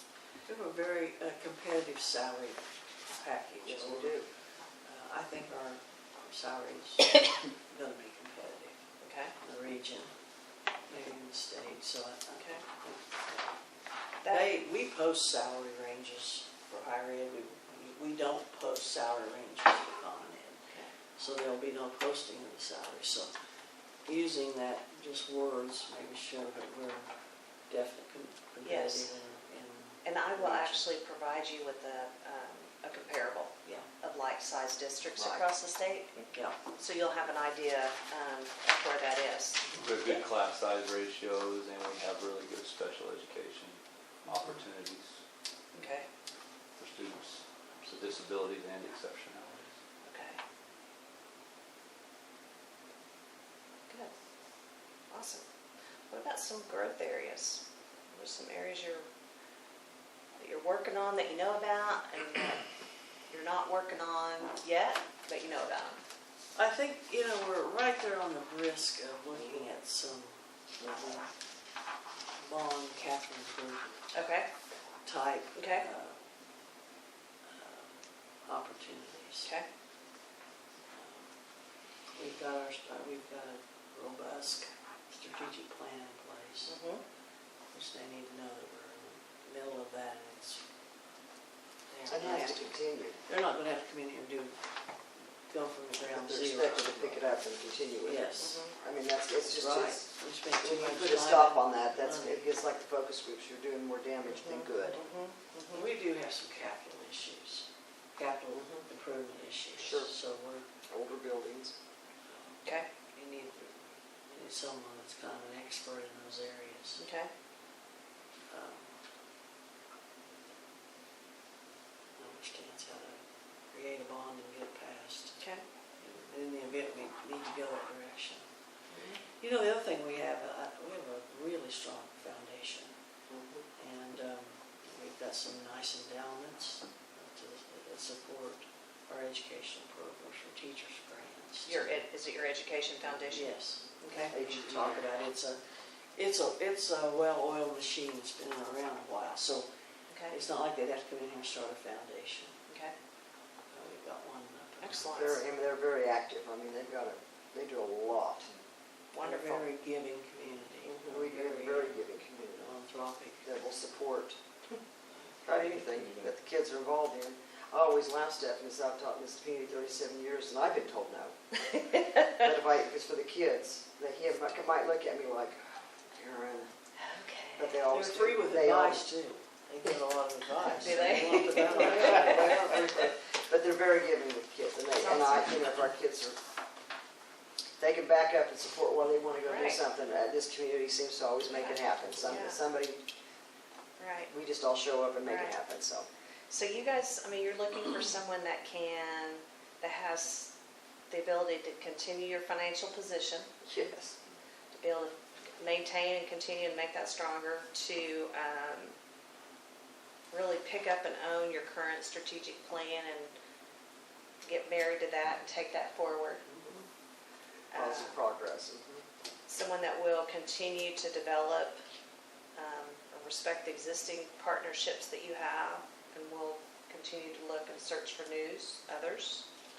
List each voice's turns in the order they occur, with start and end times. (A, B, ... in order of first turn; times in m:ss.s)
0:00.4-0:04.2 A
0:03.6-0:04.3 B
0:04.8-0:08.8 A
0:09.0-0:09.3 C
0:09.4-0:10.1 A
0:10.9-0:13.6 A
0:12.4-0:12.6 C
0:14.2-0:20.6 A
0:14.2-0:14.6 C
0:21.2-0:23.3 A
0:24.1-0:27.1 A
0:27.7-0:30.9 A
0:28.6-0:29.1 C
0:30.0-0:36.2 C
0:35.2-0:35.5 B
0:36.8-0:40.2 C
0:39.8-0:45.2 D
0:45.7-0:46.1 C
0:46.8-0:49.7 D
0:50.0-0:50.4 C
0:55.1-0:55.5 C
0:56.1-0:59.1 C
1:00.4-1:02.6 C
1:03.3-1:06.0 C
1:06.6-1:11.2 A
1:10.8-1:11.2 B
1:12.4-1:14.0 A
1:14.1-1:14.5 C
1:15.0-1:16.2 A
1:15.6-1:15.9 C
1:17.5-1:19.5 A
1:20.9-1:21.3 A
1:22.1-1:26.8 A
1:26.7-1:27.0 C
1:27.7-1:30.6 A
1:31.9-1:34.6 A
1:32.1-1:33.2 B
1:35.4-1:37.2 A
1:36.0-1:45.0 B
1:38.0-1:38.7 A
1:38.4-1:38.7 C
1:39.4-1:42.4 A
1:44.4-1:45.9 C
1:45.7-1:50.7 A
1:48.5-1:48.8 B
1:49.8-1:50.1 B
1:50.9-1:51.7 B
1:52.3-1:57.0 A
1:57.0-1:57.3 C
1:58.5-1:59.0 A
2:02.2-2:05.4 A
2:05.4-2:05.6 C
2:06.0-2:08.4 A
2:09.4-2:12.9 A
2:13.3-2:13.7 B
2:13.8-2:22.1 A
2:21.7-2:24.3 C
2:23.3-2:25.6 A
2:24.3-2:25.0 B
2:26.2-2:29.7 A
2:30.1-2:30.4 C
2:30.3-2:32.6 A
2:32.7-2:32.9 C
2:33.7-2:35.2 A
2:34.8-2:35.4 C
2:35.1-2:38.5 B
2:39.1-2:39.6 C
2:39.2-2:42.1 A
2:40.9-2:42.8 B
2:42.6-2:43.4 A
2:43.4-2:44.4 B
2:45.4-2:51.4 B
2:51.7-2:52.3 C
2:52.2-2:56.7 B
2:57.0-2:57.8 C
2:57.6-2:59.0 B
2:57.9-3:03.1 A
3:00.6-3:02.7 C
3:01.6-3:06.4 B
3:05.0-3:05.8 C
3:07.8-3:13.0 B
3:09.4-3:09.8 C
3:11.5-3:12.6 C
3:14.0-3:14.3 C
3:14.3-3:16.1 B
3:15.2-3:15.6 C
3:16.5-3:20.5 C
3:21.1-3:23.8 C
3:23.7-3:24.2 B
3:24.7-3:29.0 C
3:30.3-3:33.3 C
3:34.4-3:36.4 C
3:37.7-3:38.2 C
3:37.7-3:39.0 B
3:39.5-3:41.8 C
3:42.6-3:49.5 C